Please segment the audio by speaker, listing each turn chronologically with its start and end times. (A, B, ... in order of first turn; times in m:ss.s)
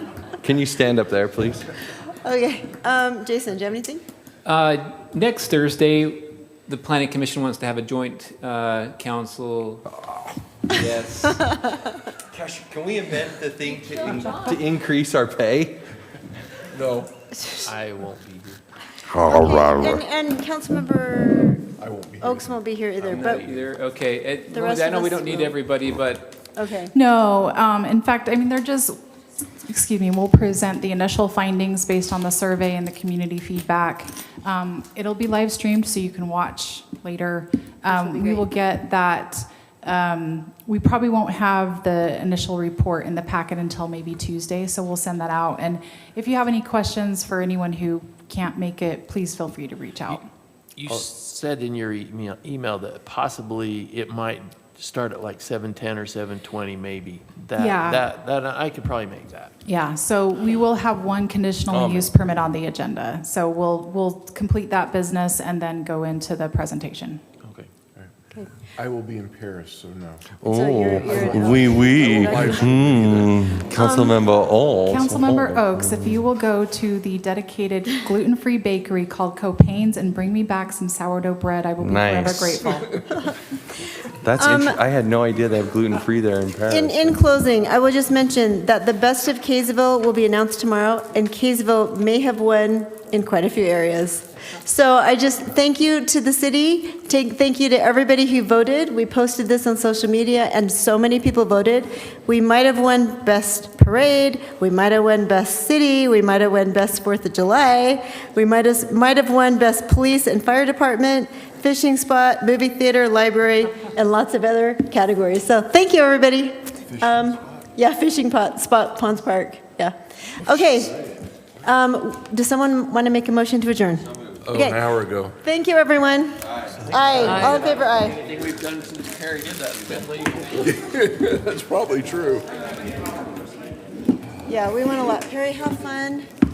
0:00.4-0:01.7 A
0:02.2-0:04.0 B
0:04.4-0:09.8 C
0:10.7-0:11.4 C
0:11.3-0:12.0 B
0:12.3-0:15.8 A
0:16.7-0:17.1 D
0:17.4-0:17.7 B
0:17.6-0:18.6 E
0:19.1-0:20.0 A
0:19.1-0:21.7 B
0:21.8-0:23.6 D
0:22.2-0:23.5 B
0:23.2-0:26.4 C
0:24.5-0:25.6 B
0:26.6-0:26.9 B
0:26.9-0:29.0 F
0:29.6-0:50.2 F
0:50.8-0:59.5 E
0:57.6-0:58.1 F
0:59.6-1:07.2 F
1:01.7-1:02.1 A
1:07.4-1:07.7 E
1:08.8-1:10.3 D
1:10.4-1:16.2 A
1:10.4-1:12.8 B
1:11.1-1:13.5 D
1:13.8-1:14.2 F
1:14.9-1:23.0 F
1:21.8-1:22.7 A
1:24.2-1:27.2 A
1:24.4-1:24.8 B
1:26.7-2:01.0 B
1:56.9-1:57.7 D
2:00.7-2:01.1 D
2:01.6-2:04.8 B
2:04.4-2:05.4 D
2:05.4-2:08.2 B
2:06.9-2:07.6 D
2:07.1-2:10.7 E
2:10.5-2:12.5 D
2:14.5-2:16.3 B